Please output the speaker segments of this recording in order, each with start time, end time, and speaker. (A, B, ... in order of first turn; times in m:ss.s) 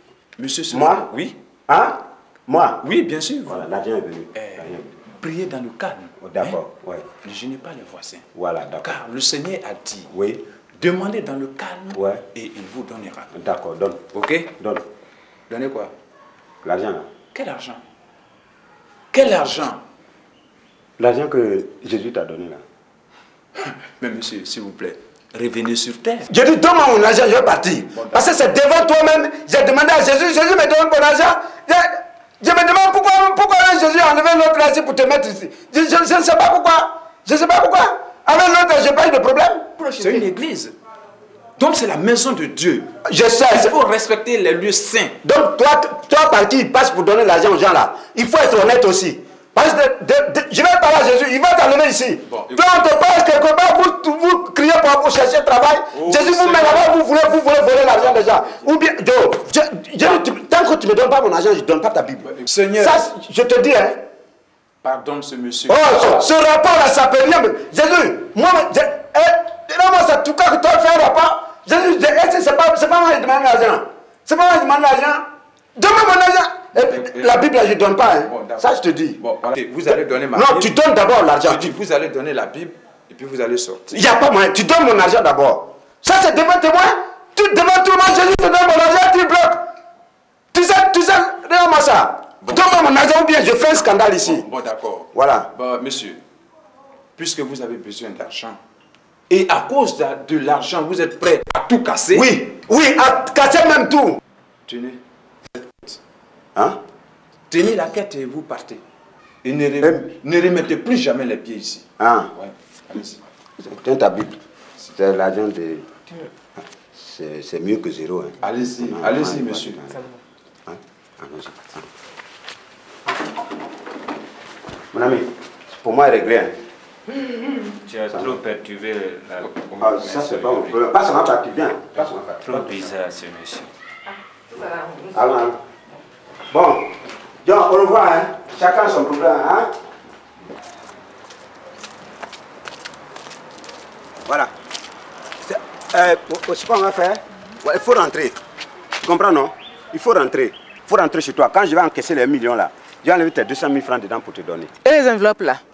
0:00.4-0:01.4 A
0:00.7-0:01.0 B
0:01.7-0:02.8 B
0:02.8-0:03.6 A
0:03.5-0:04.9 B
0:04.3-0:06.6 A
0:06.2-0:07.0 B
0:07.2-0:10.1 A
0:08.3-0:08.9 B
0:10.1-0:10.4 B
0:10.8-0:13.3 A
0:11.9-0:12.2 B
0:13.3-0:14.0 B
0:14.1-0:14.5 A
0:14.6-0:14.8 B
0:15.5-0:15.9 A
0:16.6-0:17.1 B
0:17.3-0:17.8 A
0:19.1-0:19.8 A
0:21.0-0:22.6 B
0:23.6-0:26.3 A
0:26.3-0:39.7 B
0:27.9-0:28.3 A
0:39.8-0:40.2 C
0:40.0-0:40.7 A
0:41.6-0:42.9 A
0:43.0-0:43.8 B
0:43.5-0:45.2 A
0:45.2-1:04.0 B
0:52.3-0:52.8 A
0:55.9-0:57.0 A
0:57.9-0:58.7 A
1:02.2-1:03.0 A
1:04.8-1:06.3 A
1:05.7-1:19.2 B
1:16.7-1:17.5 A
1:18.2-1:20.7 A
1:20.3-1:21.7 B
1:21.4-1:24.0 A
1:23.9-1:29.6 B
1:30.5-1:34.4 B
1:32.4-1:32.7 A
1:34.2-1:36.2 A
1:35.1-1:35.5 B
1:37.2-1:38.6 A
1:39.3-1:42.3 A
1:42.1-1:44.2 B
1:44.6-1:45.0 A
1:45.6-1:46.0 A
1:47.5-1:48.8 A
1:49.4-1:53.2 A
1:52.0-1:52.3 B
1:53.6-1:55.9 B
1:56.6-2:00.0 B
1:58.4-2:00.0 A
2:00.7-2:01.8 B
2:04.9-2:06.6 B
2:07.1-2:07.7 C
2:07.7-2:10.6 D
2:09.8-2:12.6 B
2:12.4-2:13.7 D
2:14.5-2:15.2 C
2:15.1-2:15.6 B
2:16.5-2:16.9 B
2:17.4-2:19.7 B
2:24.2-2:24.5 B
2:25.4-2:28.3 B
2:29.0-2:34.7 B
2:34.8-2:35.6 C